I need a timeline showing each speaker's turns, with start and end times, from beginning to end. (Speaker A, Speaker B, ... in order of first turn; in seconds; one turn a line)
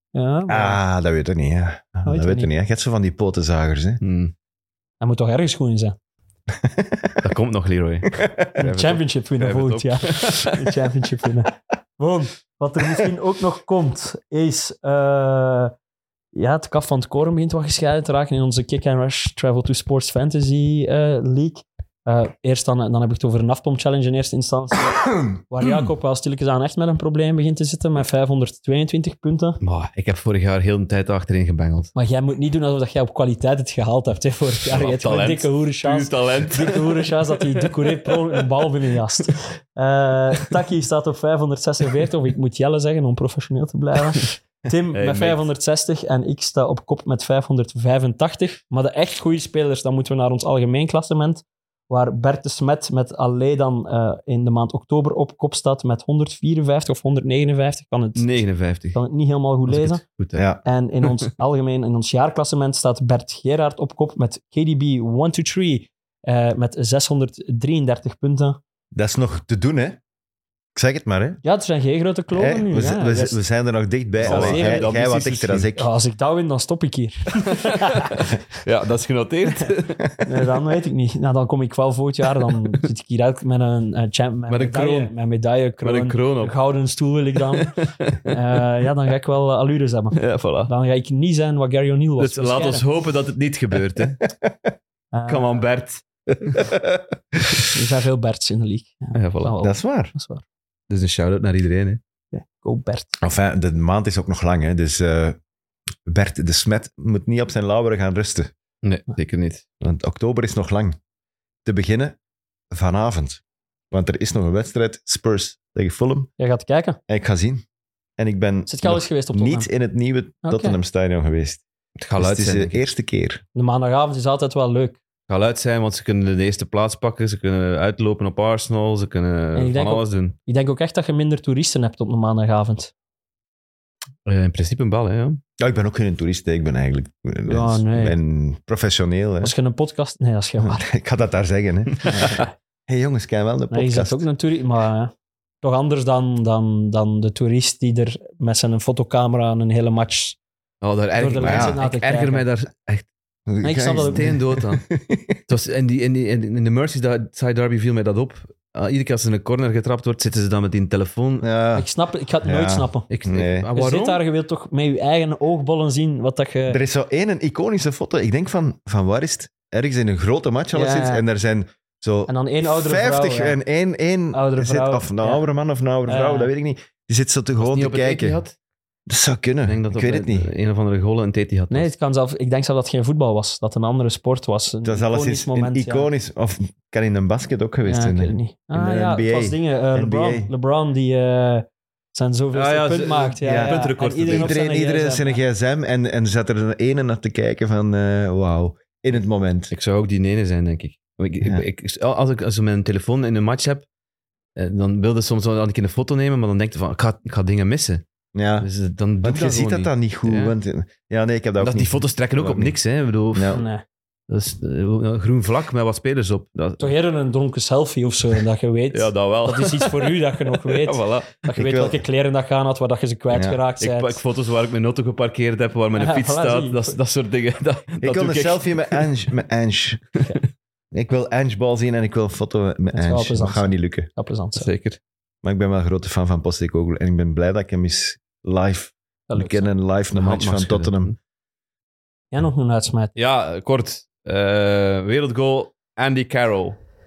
Speaker A: 0.1-0.8
Speaker B: 0.5-4.0
Speaker A: 2.1-2.5
Speaker C: 4.0-4.3
Speaker A: 5.0-6.0
Speaker B: 6.5-7.2
Speaker C: 7.2-10.8
Speaker B: 8.2-8.5
Speaker A: 8.6-15.7
Speaker A: 16.3-29.6
Speaker C: 29.6-31.9
Speaker A: 31.9-60.0
Speaker C: 34.7-38.4
Speaker C: 44.9-45.4
Speaker C: 58.2-59.0
Speaker C: 59.7-60.5
Speaker B: 60.4-60.6
Speaker A: 60.6-68.6
Speaker C: 61.0-61.3
Speaker B: 68.9-70.0
Speaker B: 70.8-71.4
Speaker A: 71.4-73.4
Speaker B: 72.3-75.9
Speaker C: 74.2-75.7
Speaker A: 74.2-74.9
Speaker A: 75.8-78.2
Speaker C: 77.5-80.1
Speaker A: 80.2-87.7
Speaker C: 84.5-85.1
Speaker C: 85.8-86.5
Speaker C: 87.5-88.4
Speaker A: 88.3-92.9
Speaker C: 90.2-90.7
Speaker C: 92.2-94.2
Speaker A: 95.1-95.6
Speaker C: 95.3-96.7
Speaker B: 96.4-97.4
Speaker A: 97.7-100.4
Speaker C: 99.2-99.5
Speaker B: 99.6-100.1
Speaker C: 100.9-102.0
Speaker A: 102.3-103.2
Speaker B: 103.2-105.4
Speaker B: 106.1-108.5
Speaker C: 108.8-109.6
Speaker B: 109.8-111.0
Speaker B: 111.7-112.2
Speaker B: 112.7-116.3
Speaker A: 116.4-117.0
Speaker B: 117.1-117.6
Speaker B: 118.2-121.6
Speaker A: 118.7-119.7
Speaker A: 120.5-120.8
Speaker C: 122.0-122.8
Speaker B: 122.2-123.4
Speaker A: 123.5-125.0
Speaker C: 125.3-130.3
Speaker A: 129.6-132.9
Speaker C: 134.3-135.4
Speaker B: 135.6-139.5
Speaker A: 137.5-138.2
Speaker A: 139.4-140.8
Speaker B: 140.6-144.2
Speaker A: 142.2-142.4
Speaker A: 143.7-150.4
Speaker C: 150.8-153.1
Speaker A: 151.2-152.4
Speaker B: 151.4-151.8
Speaker B: 153.5-155.4
Speaker A: 153.6-154.3
Speaker C: 154.1-154.8
Speaker C: 155.5-161.5
Speaker B: 161.4-161.9
Speaker A: 161.8-163.1
Speaker B: 162.4-163.7
Speaker C: 163.1-164.2
Speaker A: 163.8-166.8
Speaker B: 166.7-178.4
Speaker A: 170.7-171.2
Speaker A: 172.3-173.6
Speaker A: 174.3-175.4
Speaker A: 176.1-176.5
Speaker C: 177.6-178.5
Speaker B: 179.1-180.5
Speaker C: 179.7-181.9
Speaker A: 181.7-186.1
Speaker B: 184.8-190.5
Speaker A: 187.8-195.4
Speaker C: 192.5-194.5
Speaker B: 193.4-199.7
Speaker C: 199.7-203.8
Speaker C: 204.6-208.0
Speaker B: 208.3-208.7
Speaker C: 208.6-210.5
Speaker B: 209.2-212.8
Speaker C: 211.6-213.6
Speaker B: 213.3-213.6
Speaker A: 213.5-213.8
Speaker C: 214.3-216.9
Speaker A: 216.8-224.2
Speaker C: 218.9-221.5
Speaker B: 221.6-222.0
Speaker B: 223.3-223.6
Speaker C: 223.8-229.1
Speaker A: 225.9-227.0
Speaker B: 228.0-230.0
Speaker B: 230.9-234.1
Speaker A: 232.9-234.7
Speaker C: 234.5-235.0
Speaker B: 235.4-241.1
Speaker A: 239.3-239.7
Speaker C: 240.1-241.1
Speaker A: 242.3-243.1
Speaker C: 243.2-246.8